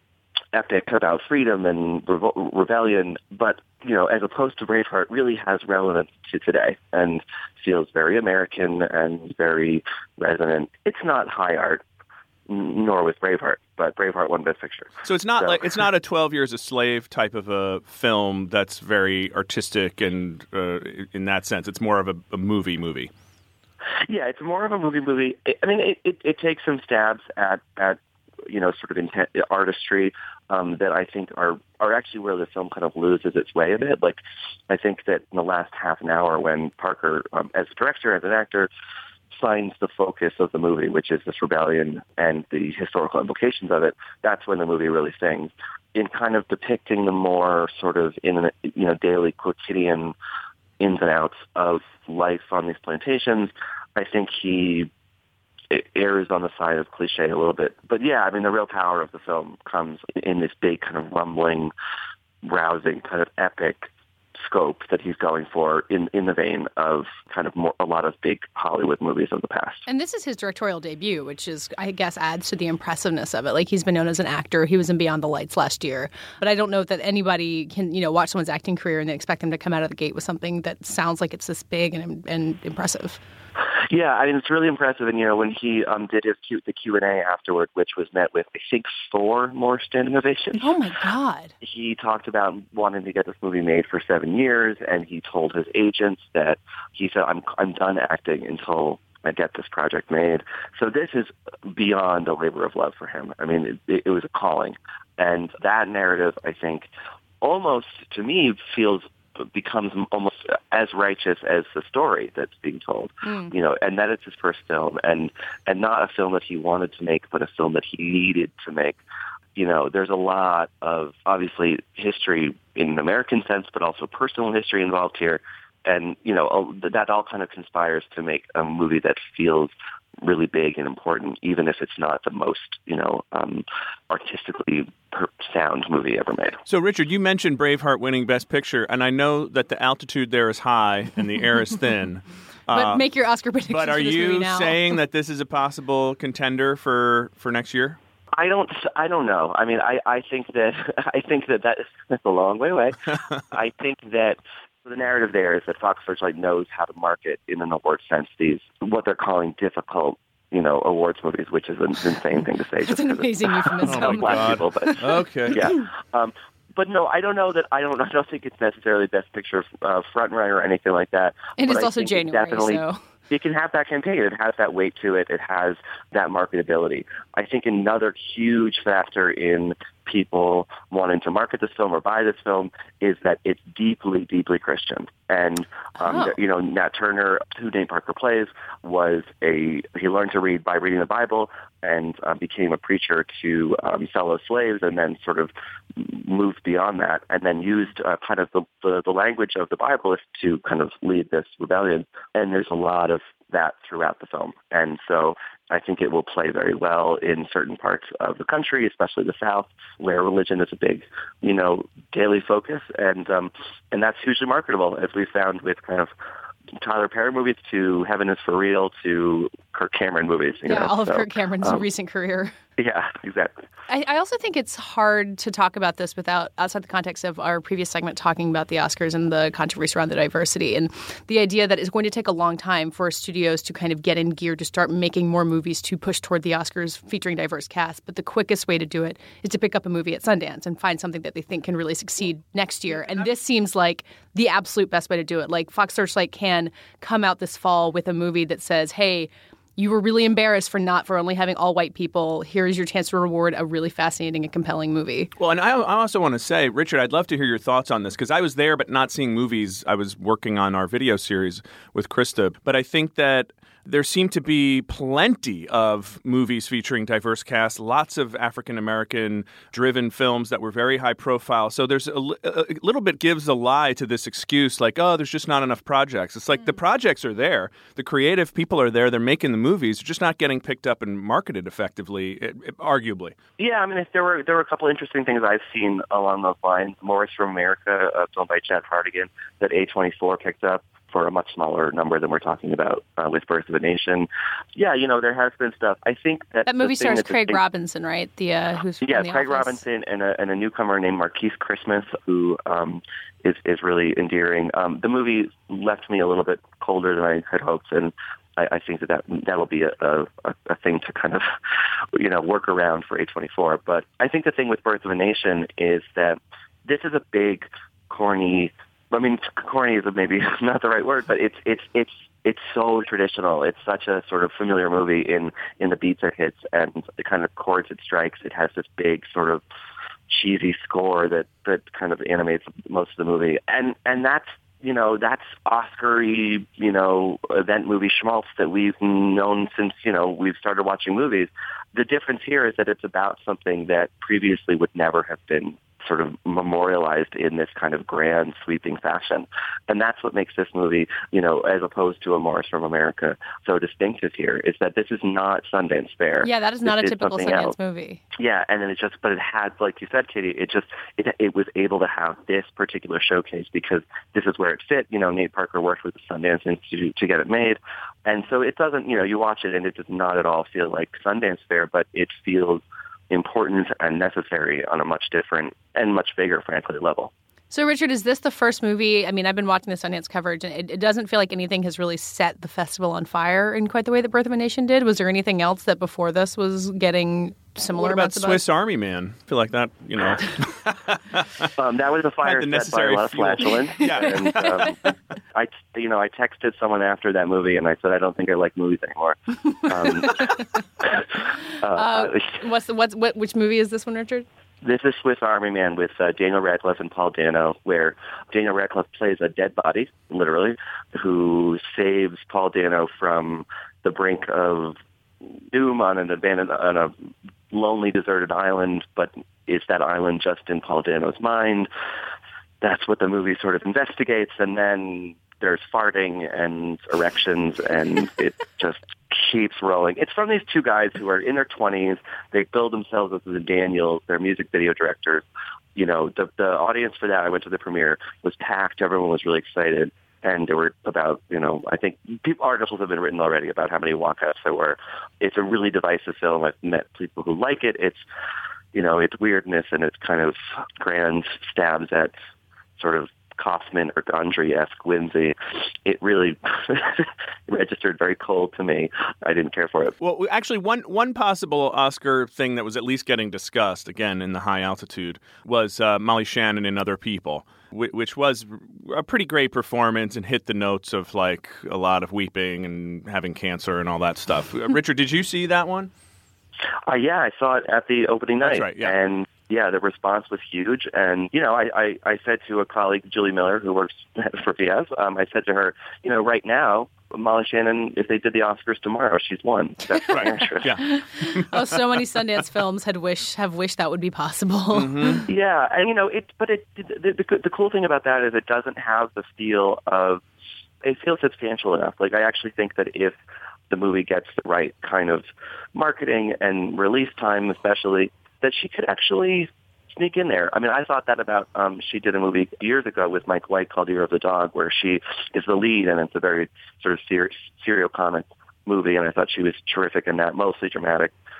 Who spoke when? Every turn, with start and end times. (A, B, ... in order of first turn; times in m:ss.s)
0:00.5-0:11.8 A
0:12.5-0:15.8 A
0:15.0-0:23.1 B
0:24.1-0:38.7 A
0:39.3-0:50.2 A
0:50.8-0:54.9 A
0:55.7-1:01.7 A
1:02.4-1:09.8 A
1:09.9-1:23.2 C
1:23.8-1:30.7 A
1:30.6-1:31.5 C
1:31.6-1:46.9 A
1:47.4-1:59.0 A
1:53.2-1:53.5 C
1:59.6-2:16.6 A
2:16.7-2:23.0 B
2:22.7-2:24.9 C
2:23.7-2:28.0 B
2:28.3-2:33.0 A
2:33.5-3:36.1 A
2:42.8-2:45.0 C
2:43.9-2:45.6 B
2:51.6-2:53.0 C
3:06.0-3:06.4 C
3:36.8-3:41.8 A
3:40.7-3:42.6 C
3:42.8-3:43.5 A
3:43.9-4:15.3 C
4:15.4-4:43.4 B
4:43.6-4:57.6 A
4:56.7-4:59.8 C
4:59.0-5:11.5 A
5:12.1-5:29.6 A
5:30.3-5:57.7 A
5:56.4-5:58.2 C
5:58.4-6:17.3 A
6:17.7-6:28.6 C
6:28.0-6:31.7 B
6:31.8-6:35.0 A
6:32.4-6:34.9 B
6:34.2-6:34.9 C
6:35.5-6:42.6 A
6:40.1-6:40.6 C
6:41.8-6:44.5 C
6:44.8-6:57.1 A
6:57.7-7:01.9 A
7:02.8-7:28.2 A
7:28.9-7:32.3 A
7:33.0-7:40.2 A
7:40.2-7:56.1 B
7:57.1-8:11.0 A
7:58.6-7:59.2 B
8:10.1-8:15.4 C
8:10.3-8:11.8 B
8:14.9-8:15.4 B
8:15.5-8:20.4 A
8:21.0-8:23.4 A
8:23.9-8:41.3 A